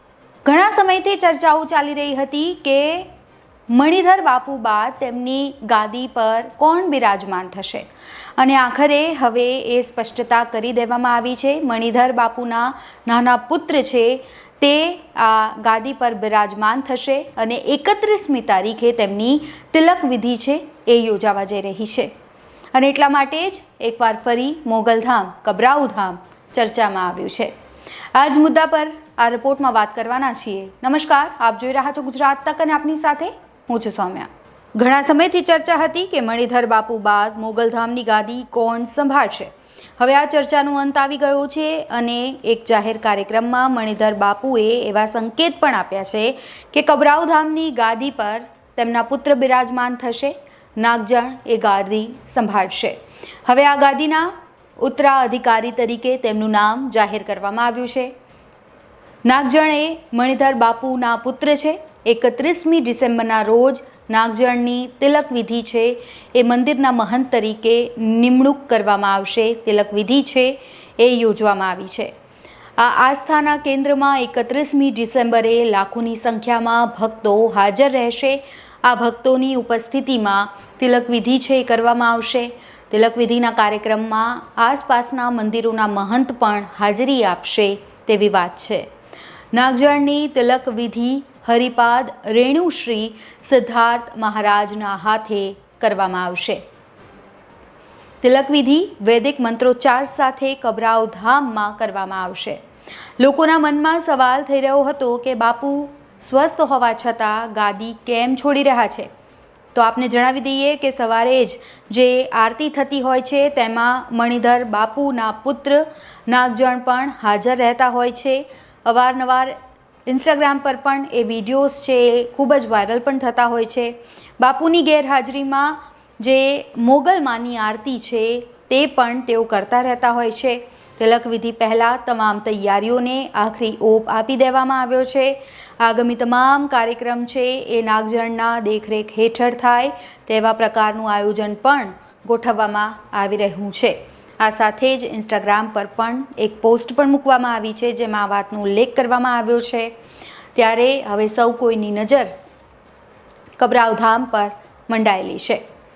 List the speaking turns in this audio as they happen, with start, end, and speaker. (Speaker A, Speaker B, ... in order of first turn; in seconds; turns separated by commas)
Speaker A: 0.4-3.1, Speaker A: 3.7-22.1, Speaker A: 22.7-27.5, Speaker A: 28.1-58.1, Speaker A: 59.2-72.1, Speaker A: 72.8-88.9, Speaker A: 89.5-96.6, Speaker A: 98.2-102.6, Speaker A: 103.2-109.1, Speaker A: 109.7-149.9, Speaker A: 150.5-152.3, Speaker A: 153.6-155.6